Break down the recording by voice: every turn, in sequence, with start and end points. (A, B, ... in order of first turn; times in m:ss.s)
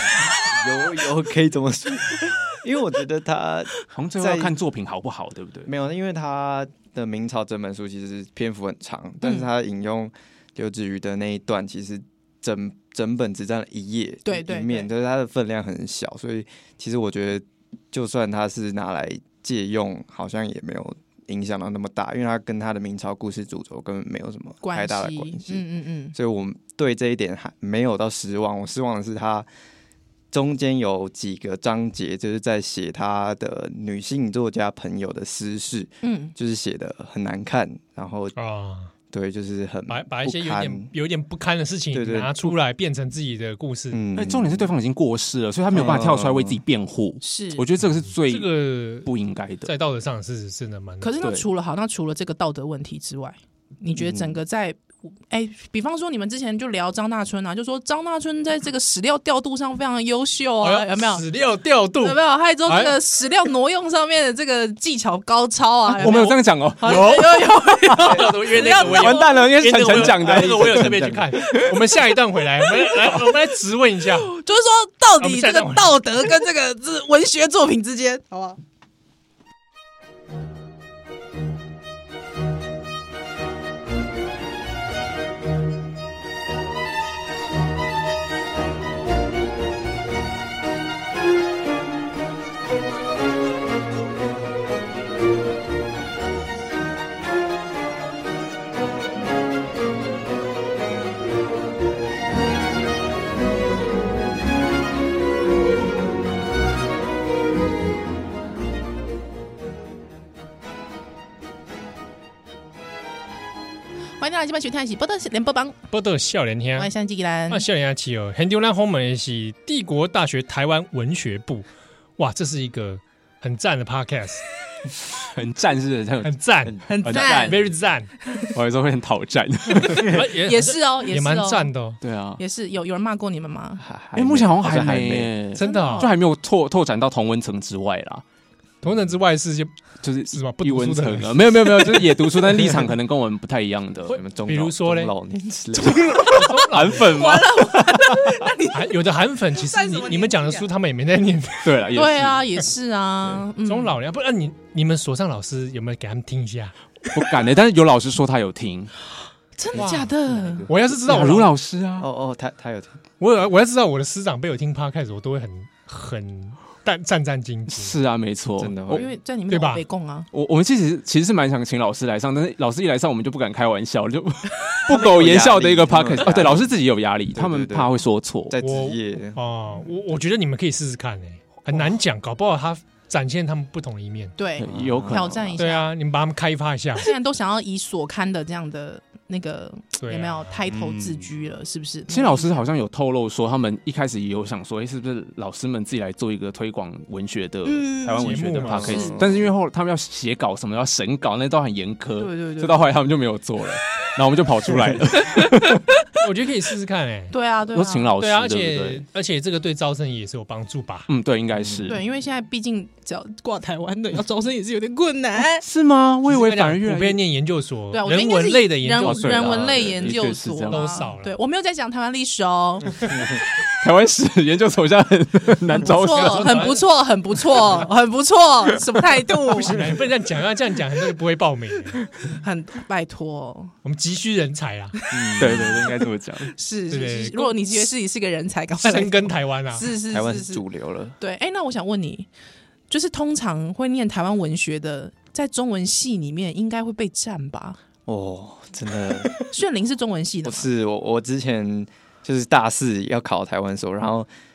0:00.3-0:04.5 A
0:03.9-0:05.7 B
0:05.7-0:25.6 A
0:14.2-0:14.9 C
0:24.6-0:26.2 C
0:26.1-0:29.5 A
0:30.3-0:38.4 A
0:36.0-0:36.3 C
0:38.4-0:38.9 D
0:39.1-0:40.9 A
0:39.9-0:44.0 D
0:41.9-0:42.6 A
0:43.9-0:44.7 A
0:44.2-0:49.7 B
0:45.7-0:46.6 A
0:47.2-0:47.6 C
0:48.3-0:49.1 D
0:49.7-0:51.2 D
0:51.0-1:01.2 C
1:00.6-1:03.0 D
1:02.0-1:09.4 C
1:06.0-1:14.3 D
1:06.0-1:07.3 B
1:08.0-1:11.2 B
1:10.2-1:11.2 A
1:12.8-1:13.3 C
1:14.2-1:18.6 C
1:15.2-1:15.9 D
1:54.2-1:55.8 C
1:55.9-1:56.9 D
1:56.8-1:57.6 C
1:57.5-2:04.4 D
2:05.2-2:07.7 B
2:06.2-2:08.1 D
2:06.9-2:07.6 C
2:08.4-2:10.2 B
2:09.8-2:12.0 D
2:10.4-2:11.7 C
2:12.0-2:12.4 B
2:12.4-2:13.8 C
2:13.8-2:15.4 A
2:14.2-2:18.2 B
2:15.6-2:16.1 D
2:15.6-2:16.1 C
2:18.8-2:19.7 D
2:20.0-2:24.2 B
2:20.3-2:22.2 D
2:24.1-2:26.2 A
2:24.4-2:25.1 D
2:25.8-2:27.1 D
2:25.9-2:28.2 B
2:27.0-2:29.0 C
2:28.7-2:31.8 D
2:29.5-2:30.7 C
2:31.6-2:32.4 B
2:31.9-2:34.0 C
2:33.6-2:36.7 D
2:37.1-2:38.9 B
2:39.6-2:40.7 C
2:39.7-2:40.1 D
2:39.8-2:41.2 A
2:40.7-2:41.5 D
2:41.0-2:42.1 B
2:42.0-2:43.0 A
2:43.2-2:48.0 D
2:47.7-2:49.1 B
2:48.6-2:49.1 A
2:48.9-2:50.3 C
2:49.5-2:49.8 D
2:50.3-2:58.6 B
2:54.9-2:56.7 A
2:57.3-2:57.9 A
2:58.5-2:59.4 A
2:58.6-3:04.3 D
3:04.4-3:05.9 C
3:04.6-3:05.5 B
3:04.7-3:05.5 A
3:05.6-3:07.1 D
3:07.0-3:12.6 C
3:10.0-3:10.6 D
3:10.9-3:11.2 A
3:12.1-3:25.8 B
3:17.7-3:19.2 C
3:18.2-3:19.0 D
3:18.7-3:19.5 A
3:22.2-3:22.9 C
3:25.2-3:26.2 C
3:26.2-3:27.3 D
3:27.3-3:28.1 C
3:27.7-3:29.0 B
3:28.2-3:31.1 D
3:31.1-3:32.0 B
3:31.9-3:35.6 C
3:35.6-3:37.2 B
3:36.3-3:39.8 D
3:37.9-3:43.2 C
3:39.0-3:41.0 B
3:39.7-3:40.1 A
3:40.7-3:41.3 D
3:43.1-3:43.4 A
3:43.7-3:46.8 B
3:45.8-3:49.8 C
3:46.0-3:46.8 D
3:49.5-3:52.0 D
3:52.3-3:53.7 C
3:53.8-3:55.0 D
3:55.0-3:55.9 C
3:55.1-3:55.9 A
3:55.4-3:56.5 B
3:56.5-4:00.6 C
3:56.9-3:57.8 D
3:58.8-3:59.9 D
4:00.1-4:01.2 A
4:01.2-4:02.3 C
4:02.9-4:07.8 C
4:08.1-4:09.4 A
4:09.4-4:10.7 C
4:10.4-4:14.3 A